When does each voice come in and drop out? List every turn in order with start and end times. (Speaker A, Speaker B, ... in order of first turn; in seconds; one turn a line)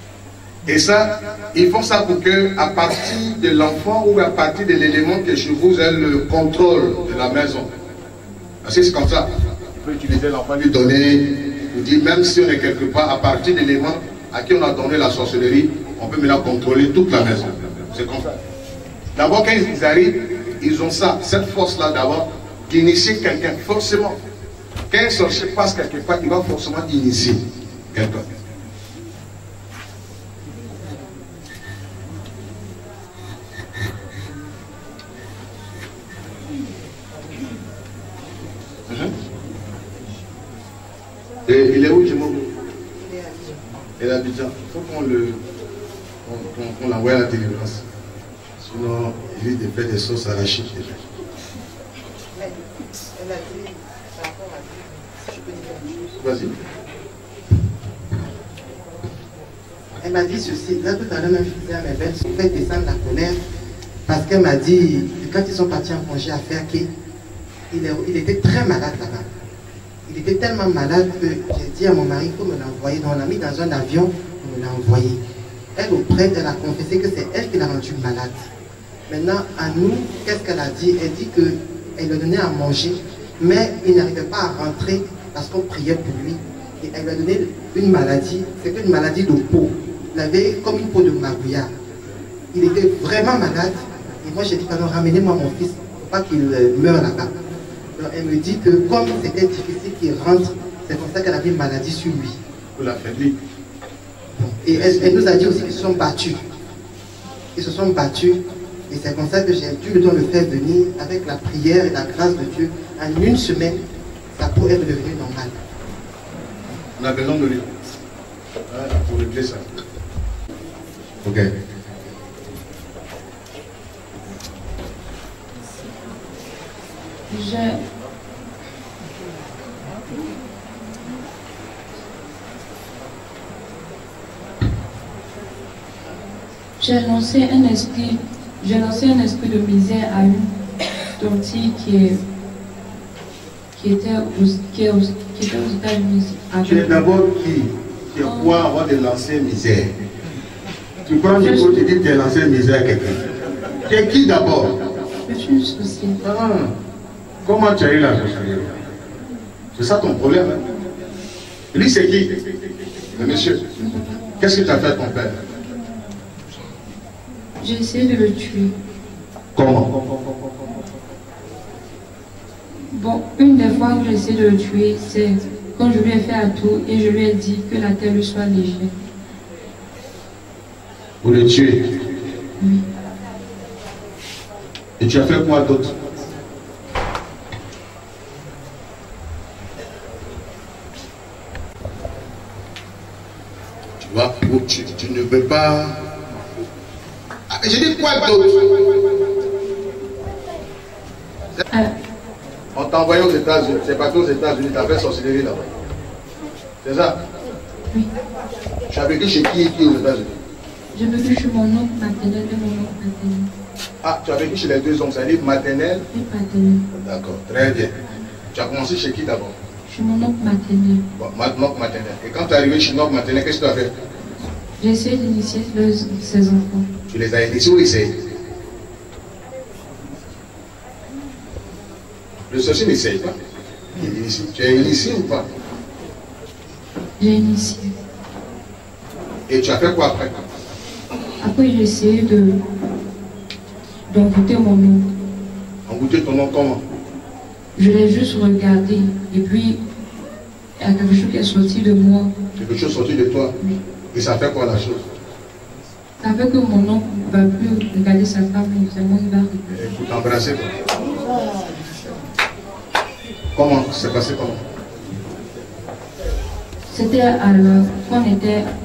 Speaker A: 0.7-7.7
Speaker A: 8.6-18.4
Speaker A: 19.1-24.2
Speaker A: 24.9-28.3
Speaker A: 38.9-39.1
Speaker A: 41.5-42.5
Speaker B: 43.0-43.6
Speaker A: 44.0-45.4
Speaker A: 46.2-47.8
Speaker A: 48.6-51.0
Speaker B: 52.3-56.0
Speaker A: 56.2-56.5
Speaker B: 60.0-63.4
Speaker B: 64.0-66.9
Speaker B: 67.7-69.3
Speaker B: 70.1-75.2
Speaker B: 75.7-78.5
Speaker B: 79.1-91.7
Speaker B: 92.5-97.3
Speaker B: 98.0-102.4
Speaker A: 102.8-103.4
Speaker B: 104.3-106.4
Speaker A: 104.7-105.4
Speaker B: 107.5-113.8
Speaker B: 114.3-115.6
Speaker A: 117.0-117.7
Speaker A: 118.7-119.8
Speaker A: 121.2-121.5
Speaker C: 127.3-127.8
Speaker C: 136.8-140.5
Speaker C: 141.2-142.2
Speaker C: 143.7-147.0
Speaker A: 146.6-149.9
Speaker C: 148.2-148.7
Speaker A: 151.0-153.2
Speaker C: 151.4-151.7
Speaker A: 153.8-154.8
Speaker C: 155.3-156.2
Speaker A: 156.2-156.7
Speaker A: 157.4-158.7
Speaker A: 159.8-160.6
Speaker A: 161.7-162.4
Speaker A: 163.1-163.7
Speaker C: 163.8-164.3
Speaker A: 164.4-165.4
Speaker C: 167.6-168.7
Speaker A: 169.5-169.9
Speaker C: 172.9-178.9
Speaker A: 181.2-181.9
Speaker C: 182.6-182.8
Speaker A: 185.0-185.9
Speaker A: 194.0-196.1
Speaker A: 197.5-198.9
Speaker A: 202.7-205.7
Speaker A: 206.8-207.2
Speaker A: 208.9-210.4
Speaker C: 210.9-213.5
Speaker A: 214.0-216.0
Speaker C: 216.1-216.8
Speaker A: 216.9-217.9
Speaker A: 218.5-219.6
Speaker C: 219.9-221.0
Speaker A: 221.2-223.9
Speaker C: 224.8-226.9
Speaker A: 227.1-228.2
Speaker A: 232.5-233.3
Speaker A: 233.9-235.5
Speaker C: 237.2-238.0
Speaker A: 239.5-240.4
Speaker C: 241.4-242.6
Speaker C: 244.1-245.1
Speaker A: 245.9-246.8
Speaker C: 247.7-249.8
Speaker C: 250.8-252.3
Speaker A: 252.6-253.5
Speaker A: 254.1-255.1
Speaker C: 256.2-259.7
Speaker A: 259.7-260.7
Speaker A: 263.5-264.6
Speaker C: 266.9-268.7